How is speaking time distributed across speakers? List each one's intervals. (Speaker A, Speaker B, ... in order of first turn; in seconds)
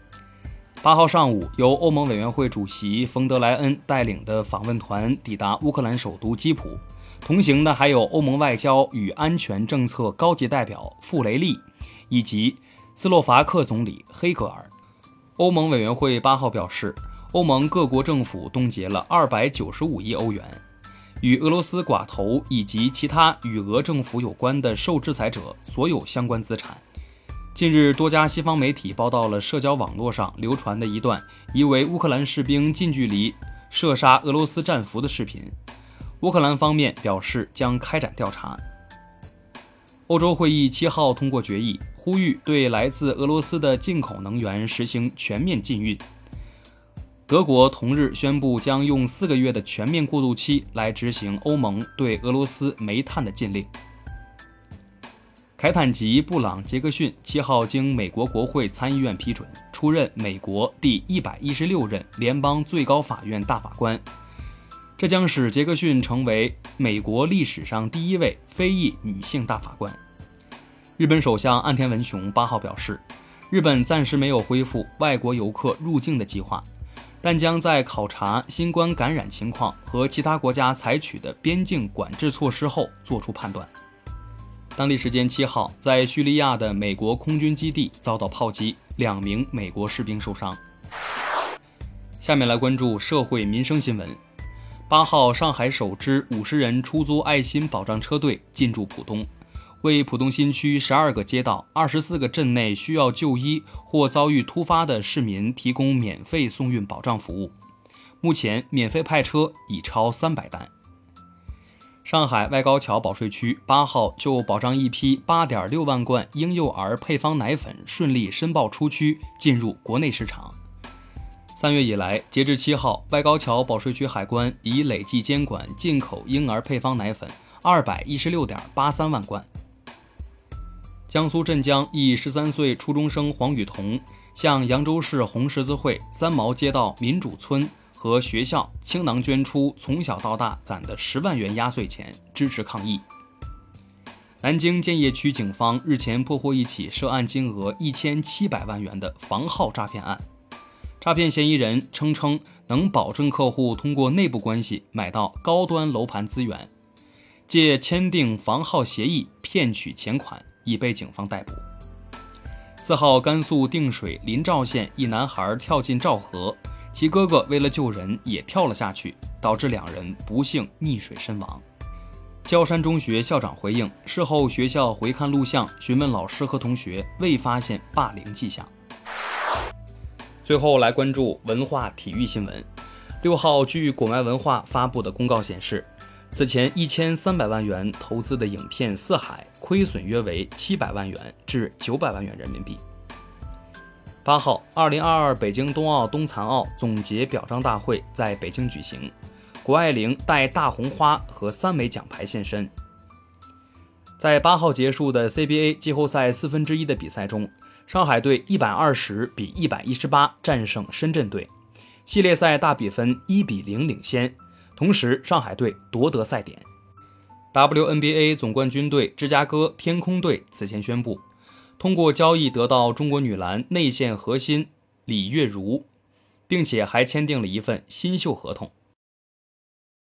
Speaker A: 0.8-14.7, 15.4-20.6, 21.2-26.8, 27.5-35.5, 36.2-38.6, 40.1-46.0, 47.3-53.7, 55.6-64.0, 65.0-70.0, 71.0-76.7, 77.2-83.7, 84.8-90.6, 92.2-94.2, 94.9-99.3, 99.8-107.5, 108.2-110.7, 112.0-120.5, 121.5-129.5, 131.1-143.0, 144.4-150.2, 151.0-156.7, 157.5-161.6, 162.8-171.6, 172.4-178.7, 180.4-182.7, 183.2-192.8, 194.2-199.1, 199.6-202.7, 204.2-211.5, 212.1-216.7, 217.5-221.2, 221.8-225.9, 226.5-228.7